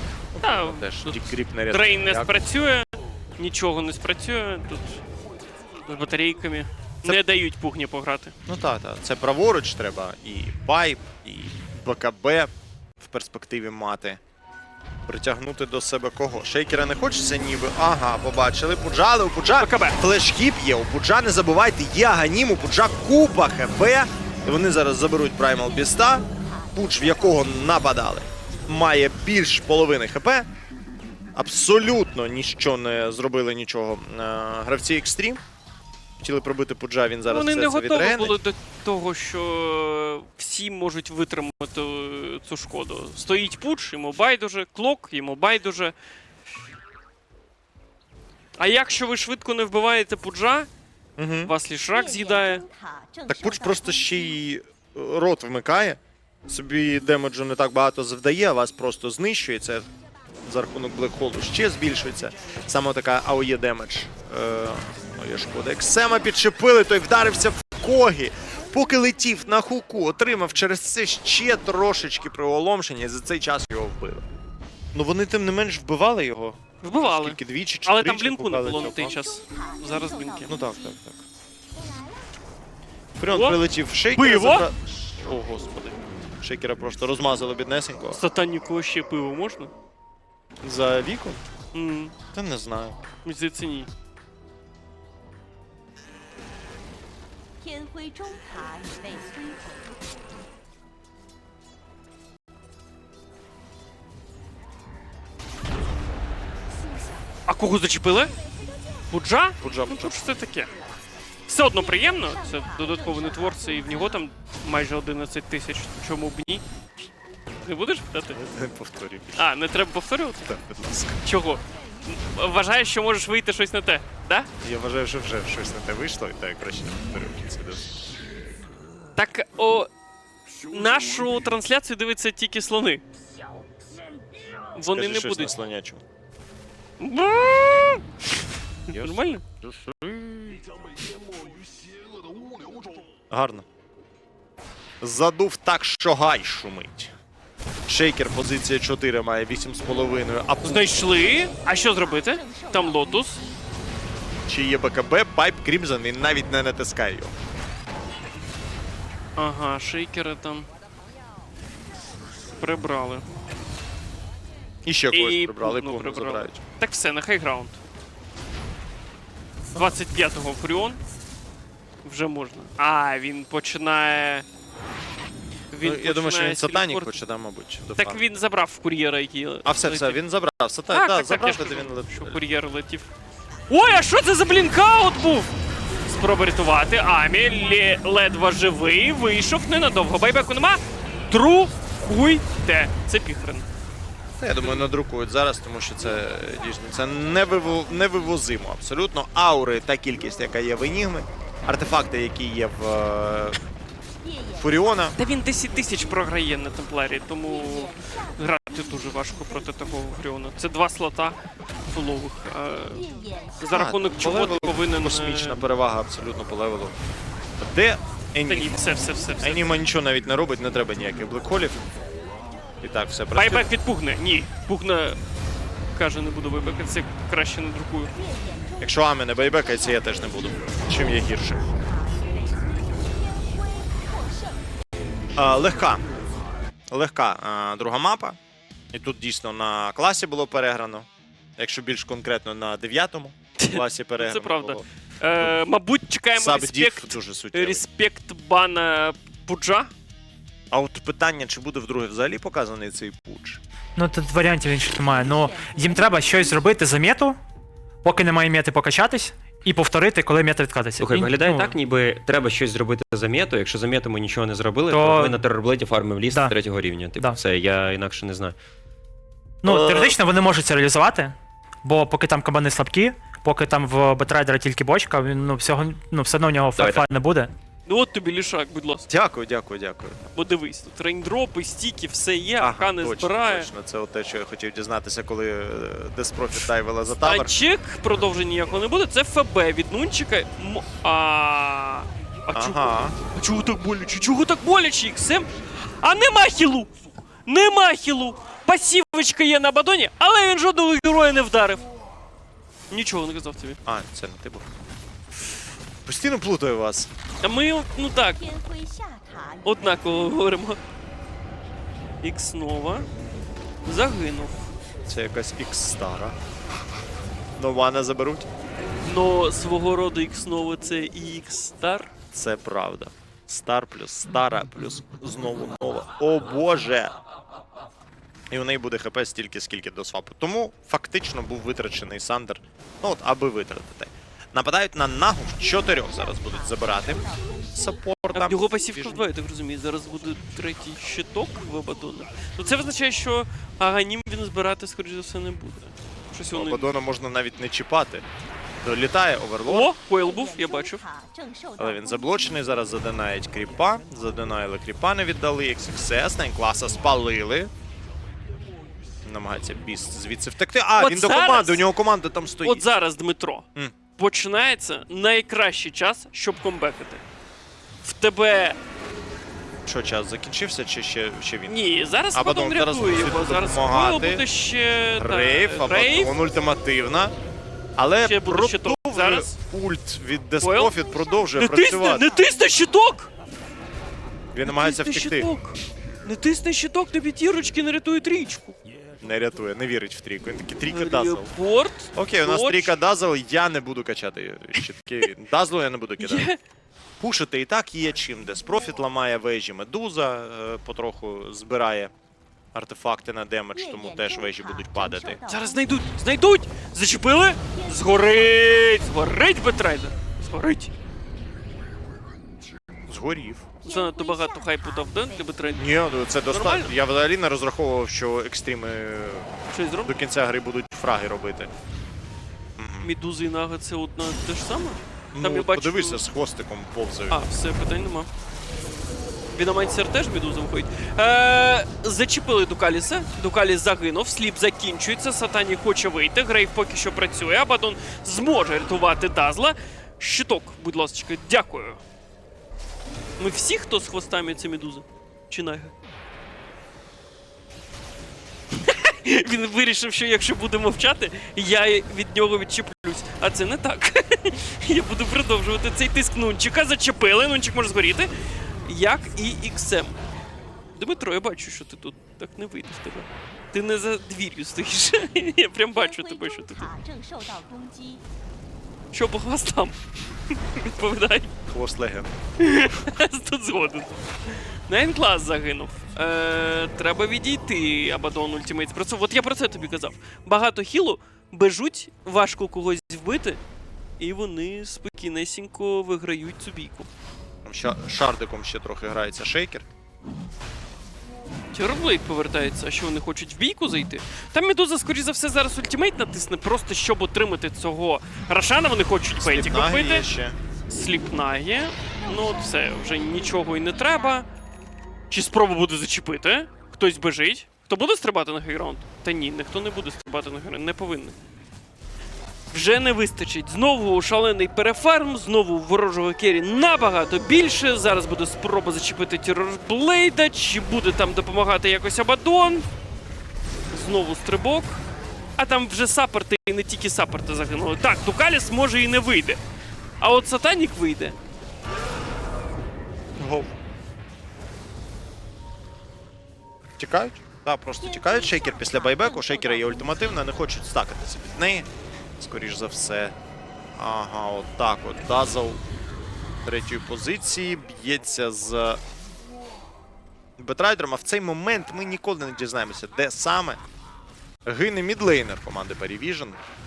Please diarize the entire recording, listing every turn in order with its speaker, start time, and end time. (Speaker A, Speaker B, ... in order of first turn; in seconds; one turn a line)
Speaker A: 0.3-2.3
Speaker B: 0.4-2.8
Speaker B: 3.4-5.0
Speaker B: 5.8-8.3
Speaker A: 8.5-14.2
Speaker A: 15.1-30.5
Speaker B: 19.5-20.0
Speaker C: 25.5-27.8
Speaker A: 31.3-35.4
Speaker A: 36.2-38.4
Speaker B: 37.3-45.9
Speaker B: 48.6-50.7
Speaker A: 51.2-51.5
Speaker B: 51.4-52.6
Speaker C: 51.9-54.4
Speaker A: 53.3-59.9
Speaker A: 60.5-74.3
Speaker A: 74.9-79.2
Speaker B: 76.8-80.5
Speaker C: 78.7-81.0
Speaker A: 80.5-81.2
Speaker C: 81.8-82.2
Speaker A: 83.2-88.2
Speaker B: 83.3-83.6
Speaker B: 84.1-84.7
Speaker B: 88.2-89.7
Speaker A: 90.6-91.4
Speaker B: 91.7-92.1
Speaker A: 92.3-93.0
Speaker B: 93.2-93.9
Speaker C: 97.6-100.1
Speaker B: 107.5-108.3
Speaker B: 109.1-110.7
Speaker A: 109.6-110.3
Speaker B: 111.5-116.6
Speaker C: 111.7-114.3
Speaker B: 117.6-118.4
Speaker A: 118.3-119.5
Speaker B: 119.3-120.5
Speaker A: 120.4-121.3
Speaker B: 121.2-124.5
Speaker A: 124.6-128.0
Speaker B: 129.1-129.9
Speaker B: 130.6-133.0
Speaker B: 134.7-135.5
Speaker A: 134.8-136.0
Speaker B: 137.0-139.4
Speaker A: 138.9-140.7
Speaker A: 143.3-143.6
Speaker A: 145.0-147.1
Speaker A: 147.9-151.0
Speaker B: 150.6-153.4
Speaker C: 151.4-153.6
Speaker A: 154.5-157.3
Speaker B: 159.4-160.7
Speaker B: 162.6-163.2
Speaker A: 164.8-166.6
Speaker B: 165.1-167.8
Speaker B: 169.7-171.0
Speaker B: 172.0-174.4
Speaker B: 175.7-177.1
Speaker A: 175.8-178.3
Speaker B: 178.0-180.2
Speaker A: 179.6-182.4
Speaker B: 180.9-183.1
Speaker B: 183.7-185.5
Speaker B: 186.1-193.7
Speaker A: 194.4-203.6
Speaker C: 196.1-198.5
Speaker C: 204.2-206.3
Speaker A: 204.6-205.2
Speaker B: 205.2-211.3
Speaker C: 207.4-210.1
Speaker B: 211.9-213.0
Speaker C: 212.9-214.6
Speaker B: 213.6-215.6
Speaker A: 213.7-216.9
Speaker A: 217.6-221.8
Speaker B: 218.5-219.6
Speaker A: 222.8-223.7
Speaker B: 223.3-225.2
Speaker B: 225.9-228.1
Speaker C: 228.1-230.8
Speaker A: 228.8-231.6
Speaker C: 231.6-234.7
Speaker A: 235.3-236.0
Speaker A: 236.9-238.4
Speaker A: 238.9-244.8
Speaker B: 243.6-249.9
Speaker A: 246.3-247.8
Speaker A: 250.7-253.6
Speaker D: 254.0-257.4
Speaker C: 254.8-256.7
Speaker D: 258.0-261.8
Speaker E: 261.0-268.6
Speaker D: 264.9-265.4
Speaker D: 269.6-277.5
Speaker E: 269.6-270.1
Speaker E: 276.8-277.1
Speaker B: 277.9-279.1
Speaker A: 279.1-280.2
Speaker B: 280.3-283.7
Speaker A: 282.6-287.5
Speaker B: 287.2-296.9
Speaker A: 292.5-293.1
Speaker B: 297.4-301.8
Speaker B: 302.9-303.8
Speaker A: 303.8-304.7
Speaker A: 305.4-307.1
Speaker B: 307.4-308.4
Speaker C: 308.4-310.4
Speaker B: 309.6-310.8
Speaker B: 312.2-313.1
Speaker B: 313.8-314.6
Speaker A: 315.1-316.4
Speaker A: 317.6-318.5
Speaker B: 319.0-322.1
Speaker A: 322.3-327.1
Speaker A: 328.5-339.2
Speaker C: 335.8-338.1
Speaker B: 338.3-346.9
Speaker A: 346.5-348.2
Speaker A: 348.8-349.9
Speaker B: 349.6-351.0
Speaker C: 350.2-352.9
Speaker A: 351.8-357.7
Speaker A: 359.2-362.9
Speaker B: 361.0-361.8
Speaker B: 362.6-363.6
Speaker B: 364.1-367.2
Speaker B: 368.0-368.8
Speaker A: 369.8-371.8
Speaker B: 371.7-376.4
Speaker A: 372.3-374.4
Speaker A: 375.2-377.3
Speaker A: 378.0-382.3
Speaker B: 378.2-379.5
Speaker B: 380.6-381.0
Speaker C: 381.0-382.6
Speaker B: 381.5-383.3
Speaker A: 384.5-385.5
Speaker B: 384.6-388.8
Speaker A: 389.2-391.5
Speaker B: 390.9-392.9
Speaker A: 392.1-396.5
Speaker B: 396.2-396.6
Speaker A: 397.2-402.1
Speaker A: 402.7-405.4
Speaker C: 403.7-406.4
Speaker B: 405.5-410.9
Speaker C: 407.7-409.8
Speaker A: 413.1-413.6
Speaker C: 413.8-415.9
Speaker B: 413.8-415.9
Speaker A: 415.8-419.5
Speaker B: 416.5-416.9
Speaker B: 419.7-420.1
Speaker A: 420.0-421.7
Speaker A: 422.8-423.1
Speaker B: 423.0-426.2
Speaker A: 425.3-427.4
Speaker B: 427.3-428.3
Speaker B: 429.5-442.0
Speaker B: 443.4-445.9
Speaker B: 448.7-458.3
Speaker B: 458.8-460.2
Speaker B: 460.9-466.8
Speaker C: 465.9-468.2
Speaker B: 469.1-470.0
Speaker B: 470.5-471.5
Speaker A: 471.7-472.3
Speaker B: 472.6-483.6
Speaker B: 484.2-487.1
Speaker A: 487.6-489.9
Speaker B: 491.7-500.3
Speaker A: 499.3-500.6
Speaker B: 500.9-504.5
Speaker C: 502.1-504.4
Speaker B: 505.3-511.3
Speaker B: 512.7-522.9
Speaker B: 523.9-525.0
Speaker B: 525.6-529.6
Speaker B: 530.2-531.4
Speaker A: 533.4-533.7
Speaker A: 537.0-541.9
Speaker C: 538.0-540.5
Speaker A: 542.4-543.4
Speaker A: 544.0-545.8
Speaker A: 546.6-549.0
Speaker A: 550.6-553.8
Speaker A: 554.6-556.6